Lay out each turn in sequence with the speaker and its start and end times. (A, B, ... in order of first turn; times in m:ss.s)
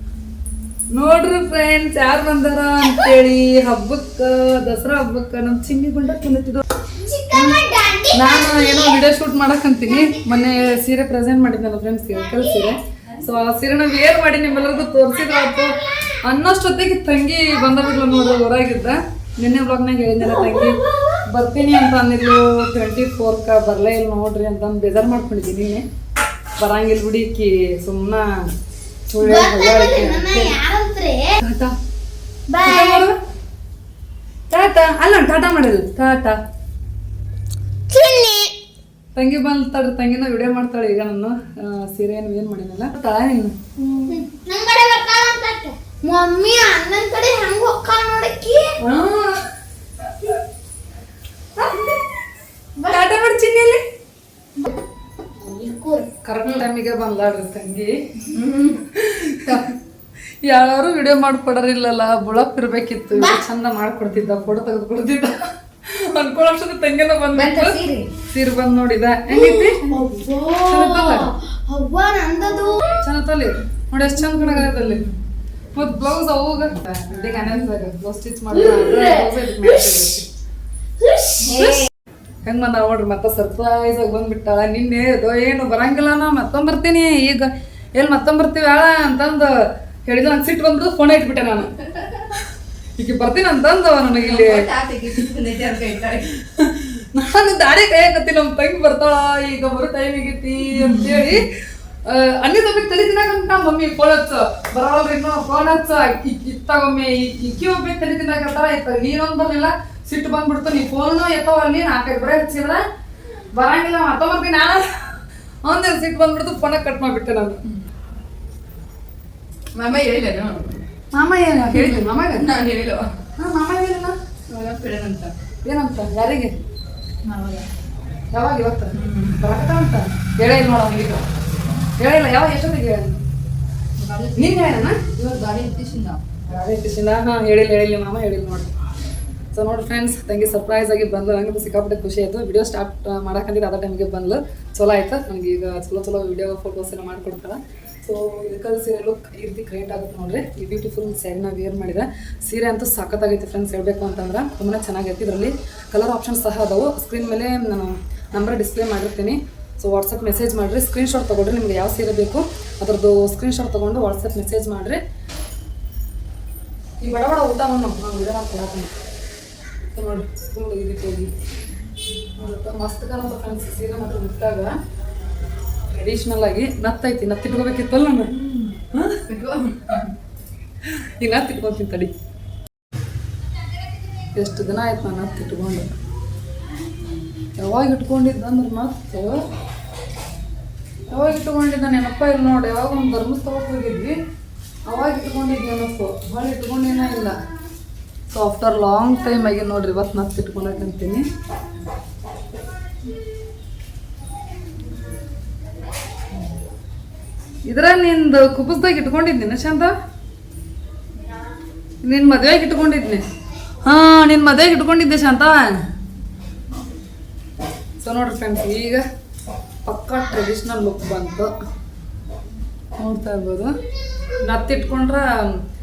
0:00.9-0:06.6 A
0:06.9-0:08.9 B
0:08.1-0:25.8 A
0:09.9-0:10.3 B
0:12.2-0:12.7 B
0:26.6-0:28.5 A
0:29.1-0:30.6 A
0:29.2-0:31.3 B
0:31.4-0:31.7 A
0:32.5-0:33.1 B
0:32.6-0:33.1 A
0:34.5-0:36.4 A
0:37.9-0:38.5 B
0:39.1-0:43.5 A
0:43.8-0:48.7 B
0:48.8-0:49.4 A
0:52.8-0:53.8 A
0:55.4-0:56.1 B
0:56.2-0:57.9 A
0:58.2-0:58.9 C
0:59.0-0:59.5 A
0:59.4-0:59.7 C
1:00.4-1:07.8 A
1:07.3-1:08.1 C
1:08.3-1:09.8 A
1:09.3-1:13.0 B
1:09.8-1:10.3 C
1:10.6-1:11.3 A
1:13.0-1:15.0 A
1:14.6-1:15.0 C
1:15.7-1:20.3 A
1:17.1-1:17.6 C
1:21.0-1:21.5 B
1:21.4-1:21.9 C
1:21.6-1:21.8 A
1:22.4-1:29.5 A
1:30.0-1:31.8 A
1:33.0-1:34.7 A
1:34.1-1:36.3 C
1:36.5-1:41.5 A
1:40.8-1:41.2 C
1:42.0-1:52.8 A
1:53.5-1:57.6 A
1:59.7-2:00.8 C
2:01.1-2:02.5 A
2:01.7-2:03.1 C
2:03.4-2:04.2 A
2:04.5-2:05.3 C
2:05.6-2:06.5 A
2:07.2-2:07.7 C
2:08.3-2:11.2 A
2:08.9-2:09.4 C
2:12.0-2:13.2 A
2:14.0-2:16.2 C
2:14.4-2:15.0 A
2:16.5-2:18.7 A
2:19.5-2:45.0 A
2:47.0-2:48.9 A
2:49.9-2:51.3 A
2:52.4-2:54.7 A
2:55.9-2:58.3 A
2:58.4-3:00.1 C
3:01.2-3:02.1 A
3:04.3-3:05.9 A
3:07.6-3:09.4 A
3:11.1-3:14.2 A
3:14.8-3:17.4 A
3:18.3-3:21.2 A
3:27.6-3:29.9 A
3:32.0-3:33.2 A
3:33.8-3:35.7 A
3:38.0-3:39.0 A
3:39.8-3:41.5 A
3:43.0-3:43.7 A
3:44.4-3:45.6 A